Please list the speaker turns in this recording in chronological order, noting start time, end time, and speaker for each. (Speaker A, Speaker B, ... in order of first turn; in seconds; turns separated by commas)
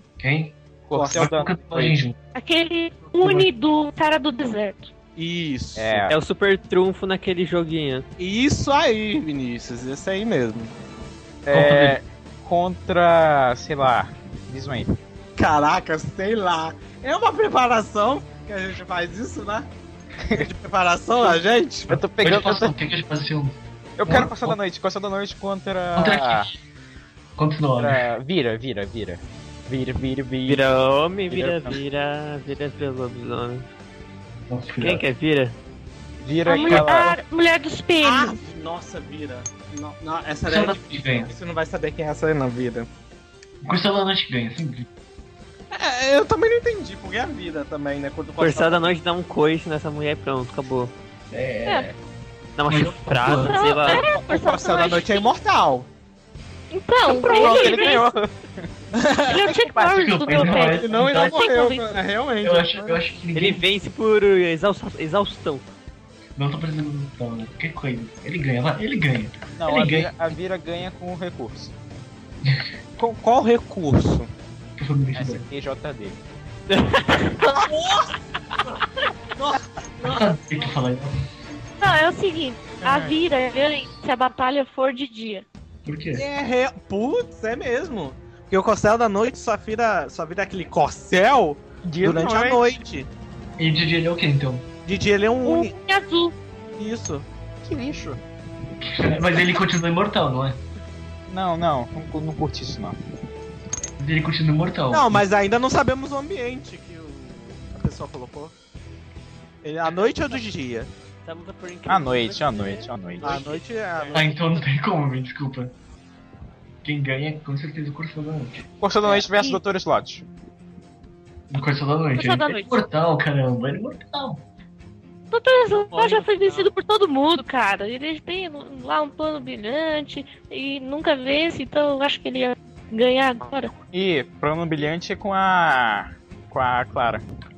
Speaker A: 0.2-0.6, Speaker B: 0.9-2.0, Speaker C: 0.9-1.3, Speaker A: 1.1-2.2, Speaker D: 2.3-4.9, Speaker A: 3.2-3.5, Speaker C: 5.2-6.1, Speaker B: 5.8-6.2, Speaker E: 6.1-8.1, Speaker C: 8.2-10.7, Speaker B: 11.4-14.9, Speaker A: 11.5-12.0, Speaker C: 15.4-19.7, Speaker C: 20.3-22.0, Speaker B: 21.9-22.7, Speaker A: 22.2-24.6, Speaker B: 24.0-26.5, Speaker A: 25.9-26.6, Speaker A: 27.4-28.1, Speaker B: 27.8-31.8, Speaker E: 30.4-33.6, Speaker A: 34.5-35.0, Speaker E: 34.8-35.5, Speaker B: 36.2-37.2, Speaker D: 36.4-38.4, Speaker C: 38.0-42.9, Speaker A: 40.5-41.3, Speaker A: 43.6-44.9, Speaker C: 45.7-48.9, Speaker E: 48.4-50.9, Speaker A: 51.3-51.9, Speaker E: 52.6-54.0, Speaker A: 52.7-53.6, Speaker D: 53.4-55.3, Speaker C: 53.8-55.9, Speaker D: 56.7-58.1, Speaker B: 57.1-58.7, Speaker C: 58.9-59.5, Speaker D: 59.2-62.0, Speaker B: 59.4-60.6, Speaker A: 59.9-61.4, Speaker C: 60.6-63.0, Speaker A: 62.4-63.6, Speaker E: 63.3-65.6, Speaker A: 66.3-70.1, Speaker B: 69.6-71.7, Speaker C: 73.0-74.3, Speaker A: 74.8-75.4, Speaker B: 75.1-76.2, Speaker E: 76.7-77.4, Speaker D: 77.4-77.7, Speaker C: 77.6-78.1, Speaker C: 79.3-80.7, Speaker A: 80.0-81.2, Speaker D: 81.8-85.4, Speaker C: 82.8-83.1, Speaker A: 85.8-86.2, Speaker C: 86.1-93.1, Speaker B: 91.8-92.7, Speaker A: 93.6-94.7, Speaker C: 94.8-95.7, Speaker D: 95.4-96.3, Speaker C: 96.8-97.2, Speaker B: 97.6-98.2, Speaker A: 98.8-100.6, Speaker B: 101.3-103.0, Speaker A: 104.0-105.2, Speaker C: 104.9-108.5, Speaker C: 109.6-110.9, Speaker E: 111.2-114.2, Speaker B: 111.9-113.4, Speaker C: 113.2-114.4, Speaker A: 114.1-115.7, Speaker A: 116.8-118.7, Speaker B: 118.8-120.2, Speaker A: 121.5-124.4, Speaker D: 122.2-122.8, Speaker D: 125.3-133.7, Speaker E: 125.9-126.6, Speaker B: 133.9-137.2